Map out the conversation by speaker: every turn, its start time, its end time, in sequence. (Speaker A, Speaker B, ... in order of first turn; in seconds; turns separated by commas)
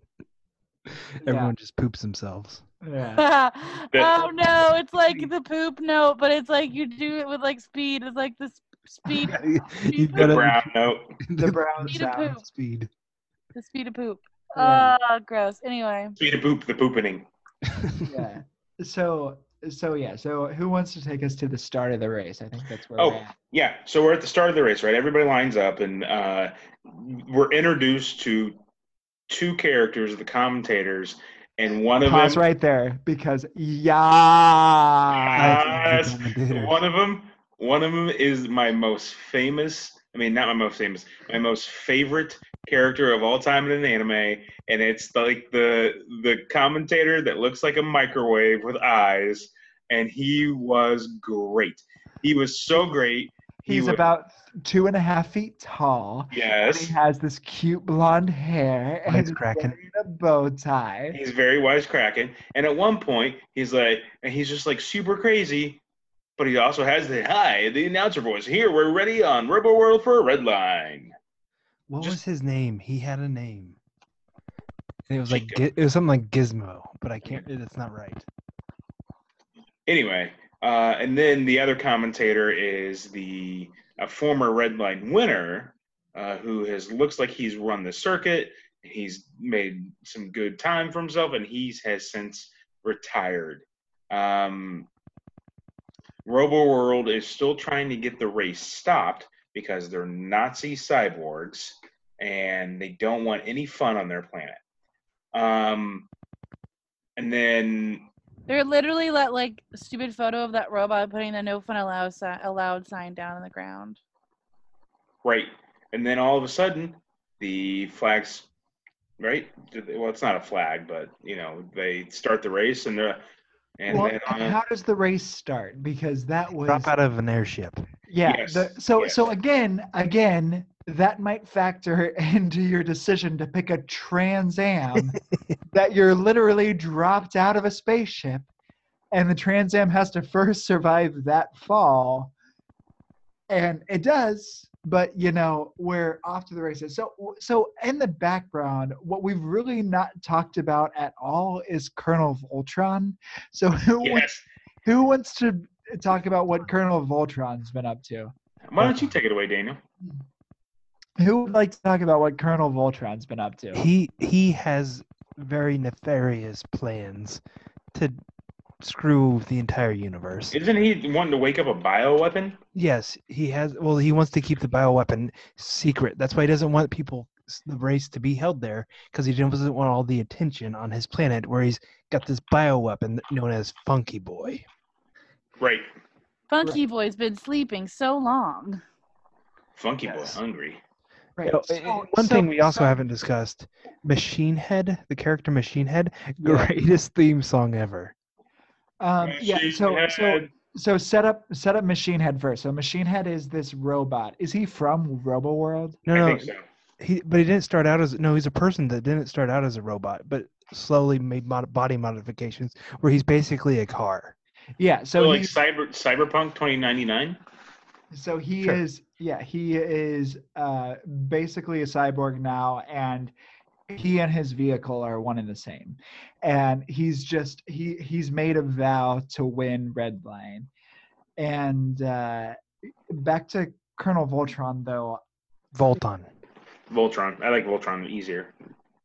Speaker A: 1.2-2.6, Speaker B: 1.2-1.5, Speaker B: 2.8-3.2, Speaker C: 3.2-10.3, Speaker D: 3.9-4.3, Speaker A: 9.1-12.9, Speaker D: 10.1-11.1, Speaker B: 11.4-12.3, Speaker C: 11.9-12.4, Speaker C: 13.5-16.2, Speaker B: 14.6-14.9, Speaker D: 16.2-17.3, Speaker A: 17.8-18.1, Speaker B: 18.1-23.3, Speaker D: 23.0-28.6, Speaker D: 29.3-32.4, Speaker B: 32.0-35.8, Speaker D: 35.2-54.0, Speaker A: 35.4-36.8, Speaker B: 53.6-61.2, Speaker D: 56.3-57.0, Speaker A: 59.1-59.8, Speaker D: 61.1-65.8, Speaker D: 66.4-71.1, Speaker A: 71.9-73.8, Speaker A: 75.1-78.3, Speaker D: 75.3-75.6, Speaker D: 79.9-94.9, Speaker D: 96.2-104.6, Speaker D: 105.3-106.1, Speaker D: 107.2-108.1, Speaker C: 108.5-114.0, Speaker D: 115.2-118.5, Speaker D: 119.2-123.2, Speaker D: 123.8-124.6, Speaker B: 123.9-126.9, Speaker A: 126.6-127.9, Speaker B: 128.1-135.2, Speaker D: 128.2-129.3, Speaker A: 135.0-135.6, Speaker B: 135.7-138.5, Speaker B: 139.1-142.3, Speaker B: 143.5-154.3, Speaker D: 154.0-154.4, Speaker B: 154.8-158.3, Speaker D: 158.7-159.8, Speaker A: 158.8-159.1, Speaker B: 161.2-163.8, Speaker A: 163.7-167.4, Speaker A: 167.9-168.2, Speaker A: 168.8-170.6, Speaker D: 170.5-172.6, Speaker A: 172.7-184.6, Speaker D: 185.6-185.9, Speaker C: 186.5-188.8, Speaker D: 189.8-190.8, Speaker A: 190.1-190.4, Speaker B: 191.4-193.0, Speaker A: 191.5-198.1, Speaker B: 196.4-196.8, Speaker B: 199.0-206.0, Speaker D: 199.2-200.5, Speaker A: 206.1-214.3, Speaker D: 206.1-206.6, Speaker B: 214.8-215.5, Speaker D: 215.2-217.4, Speaker B: 218.1-223.3, Speaker B: 223.9-230.7, Speaker B: 231.4-232.6, Speaker B: 233.1-235.2, Speaker A: 235.7-236.3, Speaker D: 236.9-238.5